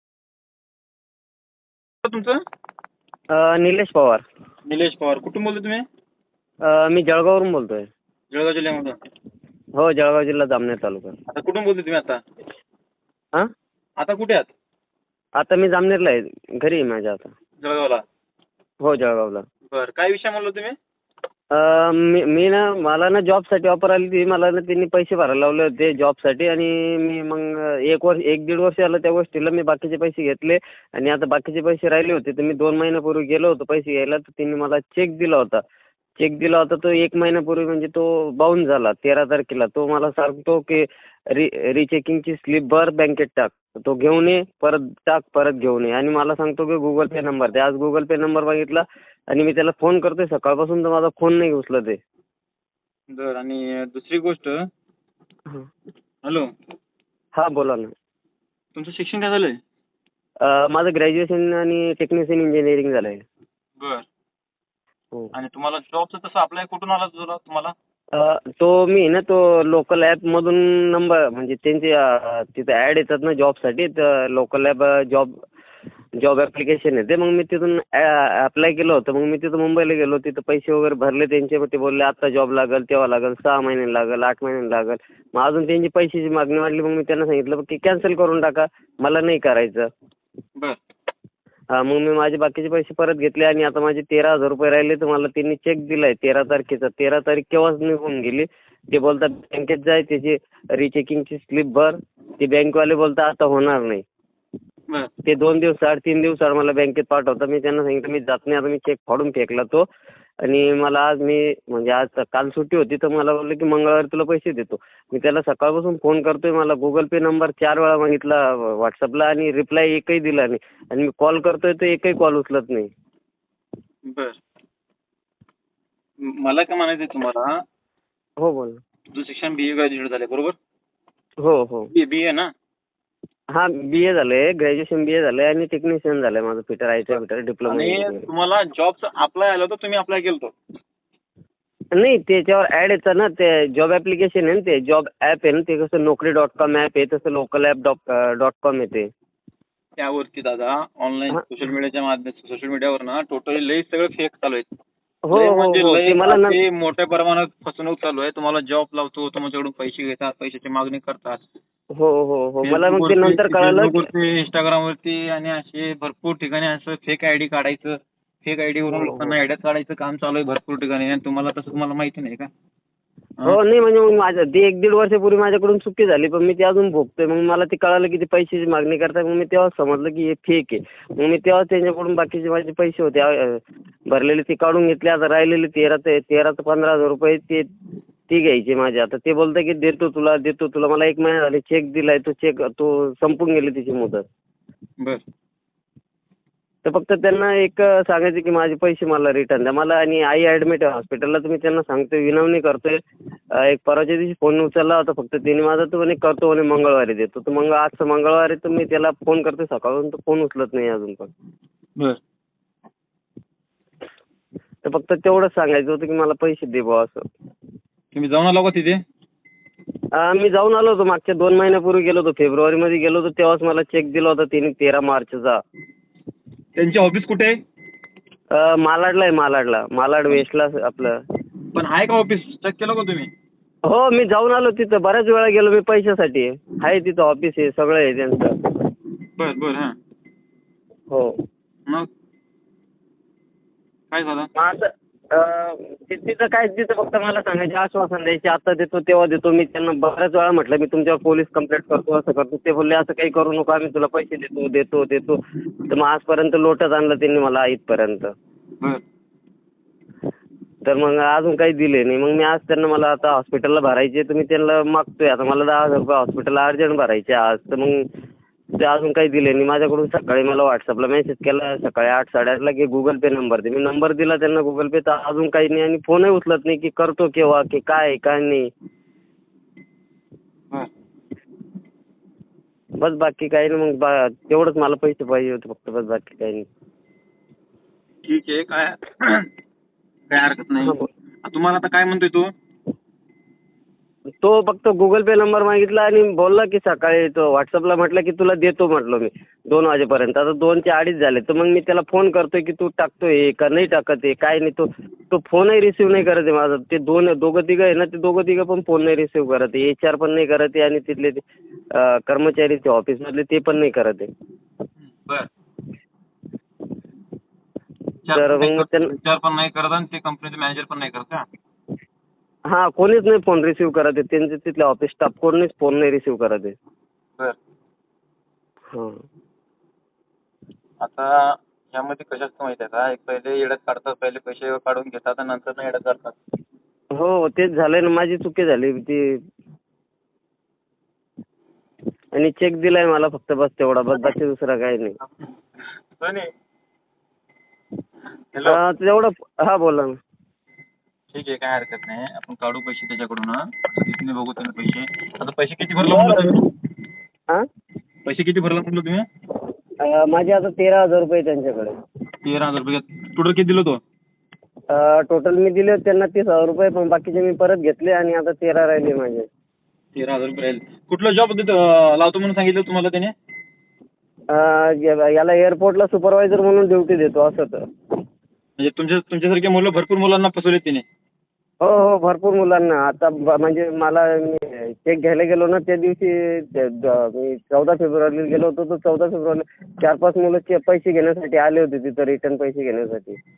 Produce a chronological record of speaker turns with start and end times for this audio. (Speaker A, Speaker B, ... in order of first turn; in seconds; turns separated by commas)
Speaker A: 2.0-2.4, Speaker B: 3.3-4.2, Speaker A: 4.7-5.8, Speaker B: 6.6-7.9, Speaker A: 8.3-9.0, Speaker B: 9.8-11.2, Speaker A: 11.3-12.2, Speaker A: 14.0-14.5, Speaker B: 15.4-17.3, Speaker A: 17.6-18.0, Speaker B: 18.8-19.5, Speaker A: 19.7-20.8, Speaker B: 21.5-35.6, Speaker B: 36.2-52.0, Speaker A: 53.1-54.7, Speaker B: 57.4-57.9, Speaker A: 58.8-59.6, Speaker B: 60.4-63.2, Speaker A: 63.8-64.0, Speaker A: 65.3-67.8, Speaker B: 68.2-75.3, Speaker B: 76.2-89.9, Speaker B: 91.8-104.0, Speaker B: 105.3-109.9, Speaker B: 110.4-122.9, Speaker A: 124.0-124.4, Speaker A: 126.2-127.5, Speaker B: 128.4-128.8, Speaker A: 129.1-130.6, Speaker B: 131.4-131.9, Speaker A: 131.9-132.5, Speaker B: 133.5-138.3, Speaker A: 137.7-140.5, Speaker B: 142.0-149.1, Speaker A: 150.0-154.7, Speaker B: 155.3-156.6, Speaker A: 155.3-161.4, Speaker B: 161.9-164.1, Speaker A: 162.6-172.5, Speaker B: 168.9-169.4, Speaker B: 173.4-187.7, Speaker B: 188.3-194.2, Speaker B: 196.8-203.0, Speaker B: 203.6-211.3, Speaker B: 214.8-217.2, Speaker A: 218.1-219.0, Speaker B: 220.2-225.6, Speaker A: 226.8-227.6, Speaker B: 228.5-231.2, Speaker A: 231.7-233.3, Speaker B: 233.9-238.6, Speaker A: 239.4-239.9, Speaker A: 244.1-244.5, Speaker B: 244.6-258.3, Speaker B: 260.8-268.1, Speaker B: 268.8-278.7, Speaker B: 283.0-286.7, Speaker A: 288.2-289.5, Speaker A: 290.3-292.5, Speaker B: 290.8-291.1, Speaker B: 294.4-314.3, Speaker A: 315.1-315.5, Speaker A: 318.2-321.5, Speaker B: 318.3-319.1, Speaker B: 322.7-326.8, Speaker B: 328.9-329.2, Speaker A: 331.0-331.3, Speaker A: 331.9-336.4, Speaker B: 337.2-339.4, Speaker B: 342.4-345.2, Speaker A: 346.2-346.5, Speaker A: 348.5-348.8, Speaker B: 348.7-350.1, Speaker A: 351.3-356.6, Speaker B: 356.0-356.6, Speaker A: 358.2-359.3, Speaker B: 360.0-361.9, Speaker A: 362.4-364.0, Speaker B: 364.9-369.5, Speaker A: 370.1-373.3, Speaker B: 374.5-377.8, Speaker A: 378.8-381.1, Speaker B: 381.8-393.4